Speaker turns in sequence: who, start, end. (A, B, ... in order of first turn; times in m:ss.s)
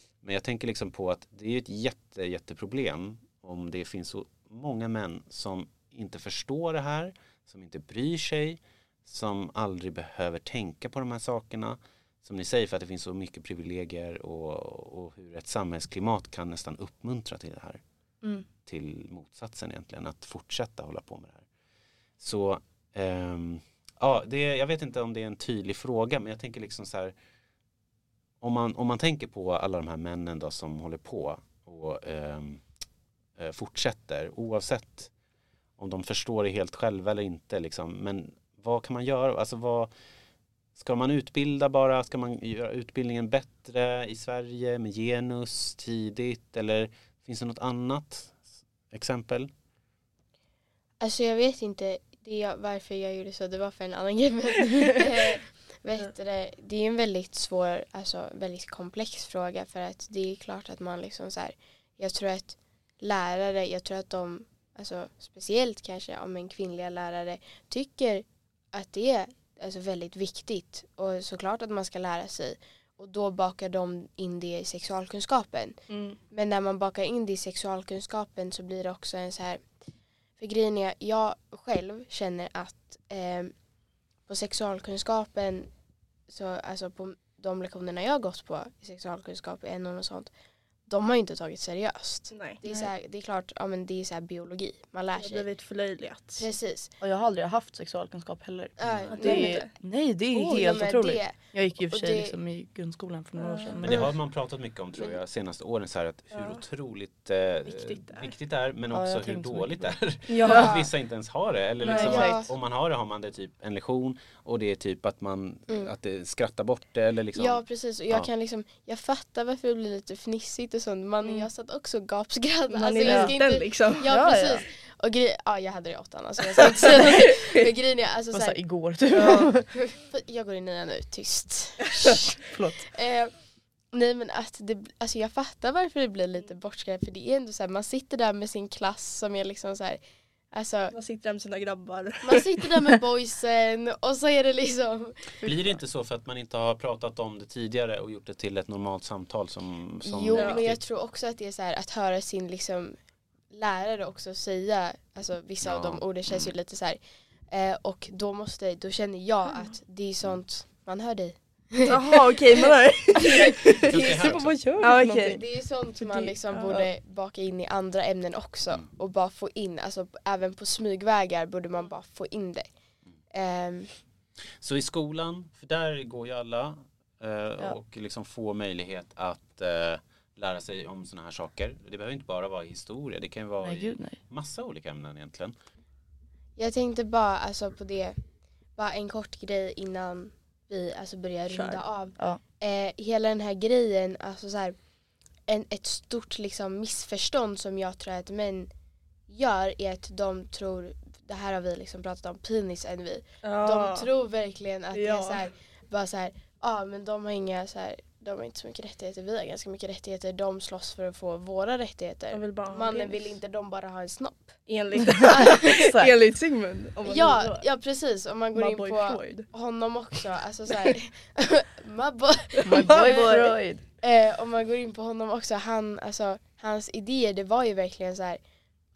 0:00.2-0:17.8 A
0:18.6-0:21.4 A
0:22.2-0:27.1 A
0:28.4-0:32.6 A
0:33.4-0:35.1 A
0:35.8-0:39.9 A
0:40.8-0:49.5 A
0:51.0-1:15.8 B
1:15.9-1:16.2 C
1:16.3-1:19.7 B
1:20.4-1:23.5 B
1:24.3-1:25.7 B
1:26.3-1:30.3 B
1:30.9-1:35.4 B
1:32.3-1:32.6 C
1:32.6-1:32.9 D
1:35.1-1:36.4 C
1:36.4-1:36.9 B
1:37.0-1:44.0 D
1:38.8-1:39.6 B
1:38.8-1:39.1 A
1:39.1-1:39.7 C
1:40.3-1:42.3 B
1:43.5-1:44.1 C
1:43.8-1:58.3 A
1:46.3-1:46.6 C
1:47.6-1:48.3 C
1:48.9-1:49.9 D
1:50.3-1:50.7 C
1:50.5-1:50.9 B
1:51.8-1:52.2 C
1:51.8-1:52.5 B
1:51.9-1:52.4 D
1:57.4-2:13.4 B
2:02.7-2:04.1 C
2:03.0-2:03.4 D
2:04.0-2:04.6 D
2:08.3-2:09.6 D
2:09.2-2:09.5 C
2:12.5-2:12.9 D
2:13.9-2:20.0 B
2:20.5-2:20.9 B
2:20.9-2:22.6 C
2:22.2-2:25.4 B
2:25.4-2:30.8 A
2:30.0-2:33.0 B
2:30.3-2:30.6 C
2:33.5-2:37.0 B
2:35.6-2:36.5 A
2:37.5-2:44.3 B
2:41.9-2:44.2 C
2:43.8-2:44.6 A
2:44.0-2:45.4 D
2:44.8-2:45.4 C
2:45.2-2:52.7 B
2:46.0-2:46.8 C
2:46.2-2:46.9 D
2:53.3-2:53.9 B
2:54.6-3:05.5 A
3:03.6-3:04.2 D
3:06.6-3:08.2 B
3:08.8-3:14.8 B
3:11.5-3:11.8 C
3:15.5-3:18.7 B
3:19.3-3:36.0 B
3:23.4-3:24.1 C
3:24.9-3:25.5 C
3:32.3-3:33.2 C
3:34.7-3:37.6 C
3:35.2-3:36.1 D
3:37.0-3:48.4 B
3:38.5-3:39.5 C
3:42.6-3:43.8 D
3:42.7-3:43.4 C